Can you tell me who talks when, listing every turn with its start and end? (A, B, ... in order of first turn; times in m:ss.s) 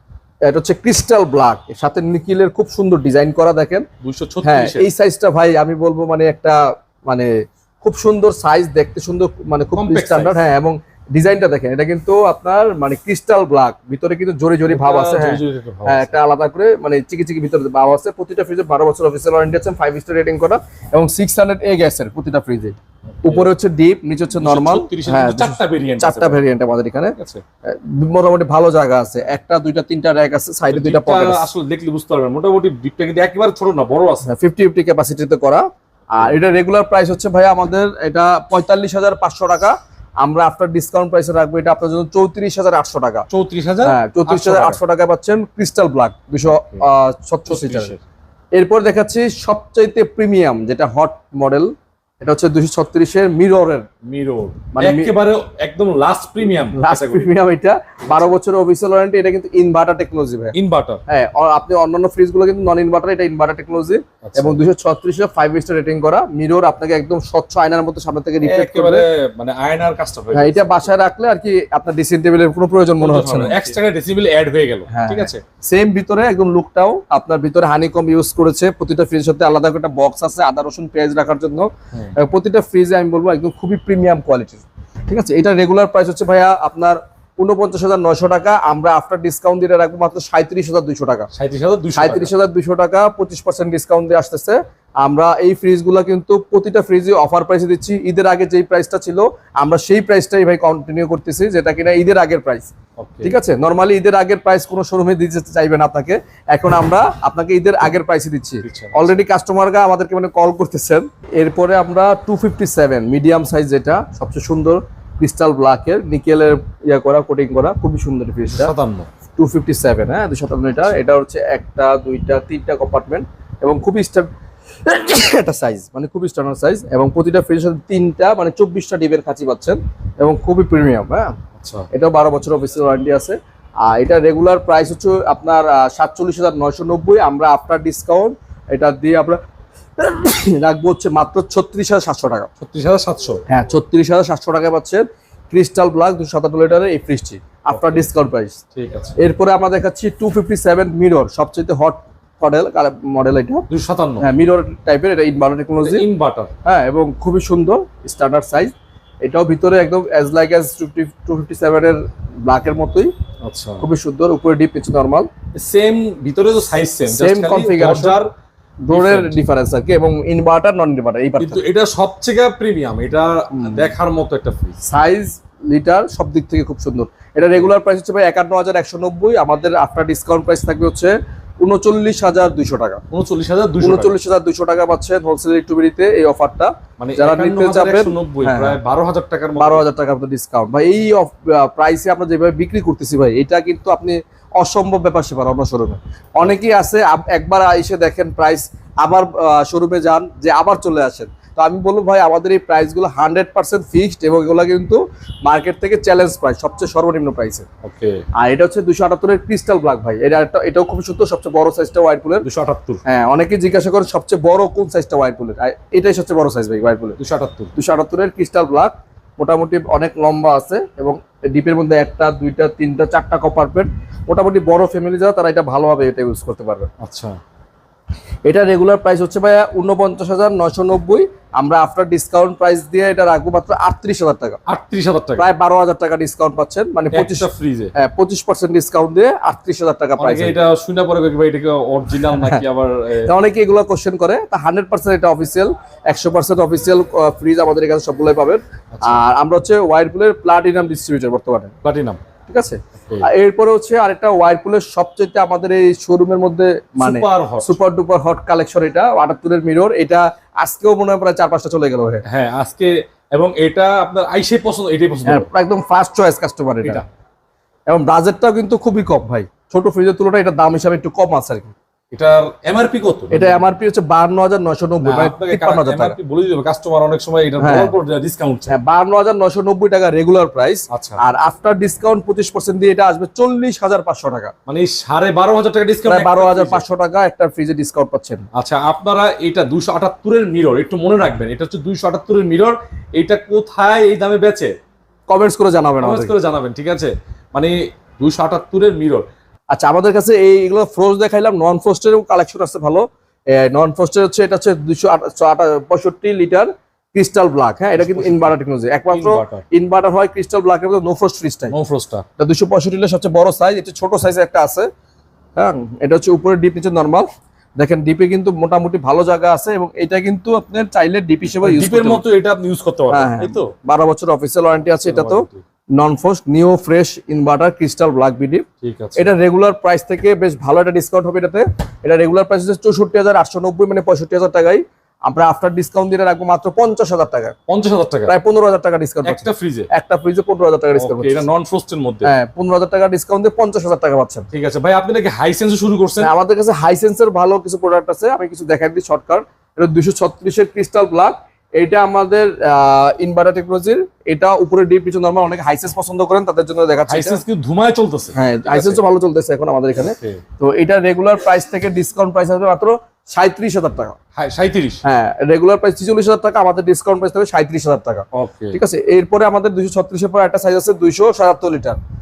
0:00.4-0:03.8 A
0:04.0-0:04.9 B
0:04.4-0:27.1 A
0:09.7-0:10.4 B
0:14.7-0:16.1 B
0:23.2-0:23.5 B
0:24.4-0:26.4 B
0:27.2-0:27.4 B
0:27.6-0:31.4 A
0:30.7-0:34.3 B
0:34.2-0:43.2 A
0:43.3-0:44.8 B
0:43.8-0:47.9 A
0:46.5-0:46.8 B
0:47.5-0:48.0 B
0:48.5-0:53.8 A
0:54.1-0:57.3 B
0:54.7-0:55.1 A
0:56.7-1:00.5 A
1:00.5-1:01.0 B
1:01.1-1:09.0 A
1:04.2-1:04.6 B
1:08.4-1:10.9 B
1:10.3-1:13.6 A
1:13.0-1:15.4 B
1:14.9-1:31.3 A
1:31.3-1:32.3 B
1:32.0-1:42.7 A
1:43.0-1:43.3 B
1:43.2-1:58.7 A
1:48.6-1:49.2 B
1:58.5-1:59.1 B
1:59.4-2:04.3 A
2:04.8-2:11.3 A
2:11.6-2:11.9 B
2:11.9-2:19.4 A
2:20.0-2:22.5 A
2:22.6-2:23.4 B
2:23.5-2:28.6 A
2:27.7-2:28.1 B
2:28.7-2:29.2 B
2:29.2-2:33.7 A
2:33.7-2:34.3 B
2:34.2-2:36.0 A
2:35.8-2:36.5 B
2:36.6-2:38.7 A
2:39.2-2:43.1 A
2:43.4-2:43.8 B
2:43.8-2:45.3 A
2:45.5-2:48.3 B
2:47.1-2:48.2 A
2:48.8-2:51.6 A
2:48.9-2:49.4 B
2:51.4-2:54.8 B
2:53.5-2:53.9 A
2:54.8-3:03.0 A
3:03.1-3:04.1 B
3:03.8-3:08.8 A
3:07.0-3:09.8 B
3:09.6-3:27.7 A
3:27.8-3:28.2 B
3:28.4-3:32.4 A
3:32.4-3:33.0 B
3:33.0-3:37.2 A
3:37.2-3:37.7 B
3:37.8-3:46.9 A
3:47.0-3:47.4 B
3:48.4-3:54.6 A
3:54.6-3:55.5 B
3:55.4-4:00.6 A
3:57.1-3:57.9 B
4:00.2-4:03.3 B
4:02.2-4:02.6 A
4:03.2-4:11.7 A
4:08.9-4:09.2 B
4:11.8-4:12.2 B
4:12.5-4:22.2 A
4:17.0-4:17.8 B
4:22.2-4:25.5 B
4:25.2-4:27.0 A
4:27.9-4:31.7 A
4:32.1-4:33.6 B
4:33.3-4:36.1 A
4:35.0-4:38.7 B
4:37.6-4:37.9 A
4:38.7-4:44.5 A
4:40.9-4:41.2 B
4:44.7-4:46.8 B
4:46.0-4:48.4 A
4:48.5-4:54.7 B
4:55.3-4:56.3 A
4:56.0-4:59.2 B
4:59.7-5:11.7 A
5:08.0-5:08.5 B
5:09.1-5:09.6 B
5:11.7-5:12.2 B
5:12.4-5:14.9 A
5:15.6-5:17.3 A
5:17.8-5:22.2 A
5:21.6-5:23.7 B
5:23.1-5:25.4 A
5:25.0-5:25.6 B
5:26.0-5:28.6 A
5:28.8-5:29.3 B
5:29.2-5:37.5 A
5:37.7-5:38.3 B
5:38.3-5:41.4 A
5:39.2-5:39.9 B
5:41.0-5:42.3 B
5:42.2-5:44.5 A
5:44.5-5:46.3 B
5:46.2-5:57.4 A
5:57.1-5:59.0 B
5:58.3-6:04.2 A
6:00.0-6:00.4 B
6:04.4-6:05.0 B
6:05.0-6:12.0 A
6:08.3-6:08.8 B